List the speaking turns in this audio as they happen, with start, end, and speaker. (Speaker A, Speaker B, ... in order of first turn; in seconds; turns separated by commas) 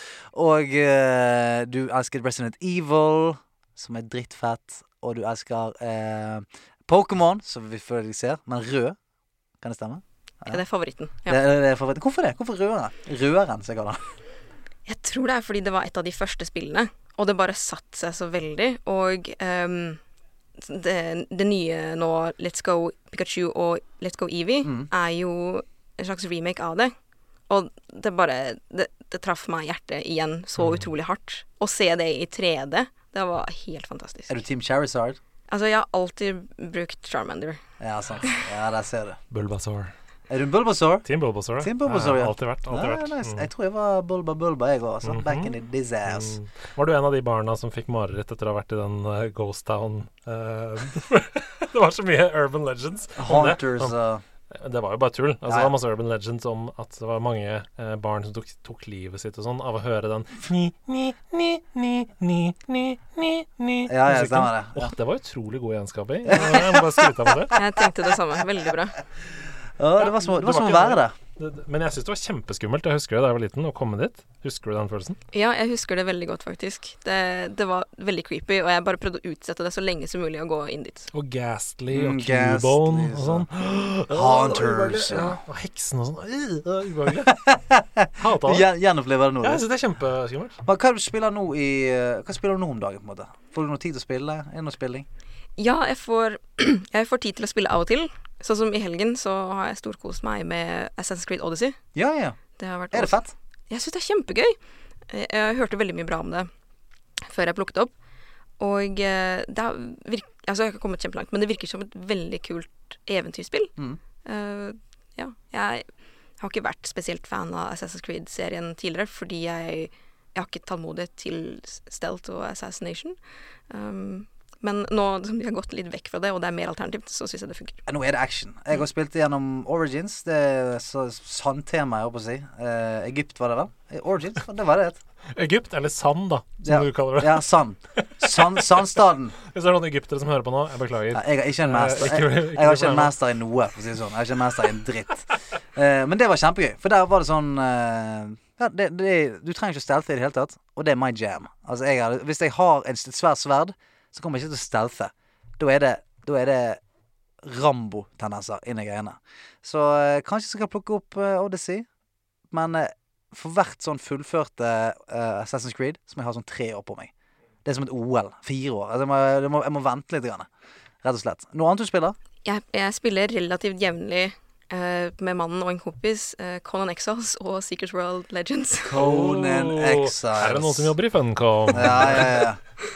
Speaker A: 0.3-8.9, Speaker A: 9.6-10.6, Speaker B: 10.4-11.4, Speaker A: 11.2-14.0, Speaker B: 14.8-20.0, Speaker B: 20.6-26.9, Speaker A: 24.6-24.9, Speaker B: 27.5-34.4, Speaker C: 30.6-30.8, Speaker A: 34.3-35.2, Speaker B: 35.5-37.6, Speaker A: 37.8-39.2, Speaker C: 39.3-39.9, Speaker A: 40.3-41.0, Speaker C: 41.0-43.5, Speaker A: 41.6-46.3, Speaker C: 45.0-45.5, Speaker C: 46.1-53.9, Speaker A: 53.2-54.2, Speaker C: 54.5-67.6, Speaker A: 63.9-64.9, Speaker A: 66.2-67.3, Speaker B: 67.5-69.0, Speaker A: 69.8-71.1, Speaker C: 70.0-75.2, Speaker B: 75.3-81.1, Speaker C: 81.1-87.4, Speaker A: 81.9-83.5, Speaker A: 84.1-85.4, Speaker A: 87.2-89.6, Speaker C: 88.2-88.7, Speaker C: 89.4-90.6, Speaker A: 90.6-95.0, Speaker B: 95.6-101.8, Speaker A: 101.9-102.4, Speaker B: 102.6-103.2, Speaker A: 102.9-103.3, Speaker B: 103.7-104.6, Speaker B: 105.1-106.5, Speaker B: 107.2-107.9, Speaker B: 108.6-115.9, Speaker B: 116.4-123.2, Speaker B: 123.7-127.8, Speaker A: 127.9-135.0, Speaker C: 135.3-138.8, Speaker A: 136.6-139.3, Speaker C: 139.4-143.1, Speaker A: 141.1-156.8, Speaker A: 157.4-161.8, Speaker A: 162.5-167.1, Speaker A: 167.6-170.5, Speaker A: 171.0-172.2, Speaker B: 172.4-179.0, Speaker A: 178.8-180.9, Speaker C: 178.9-182.5, Speaker A: 181.7-182.6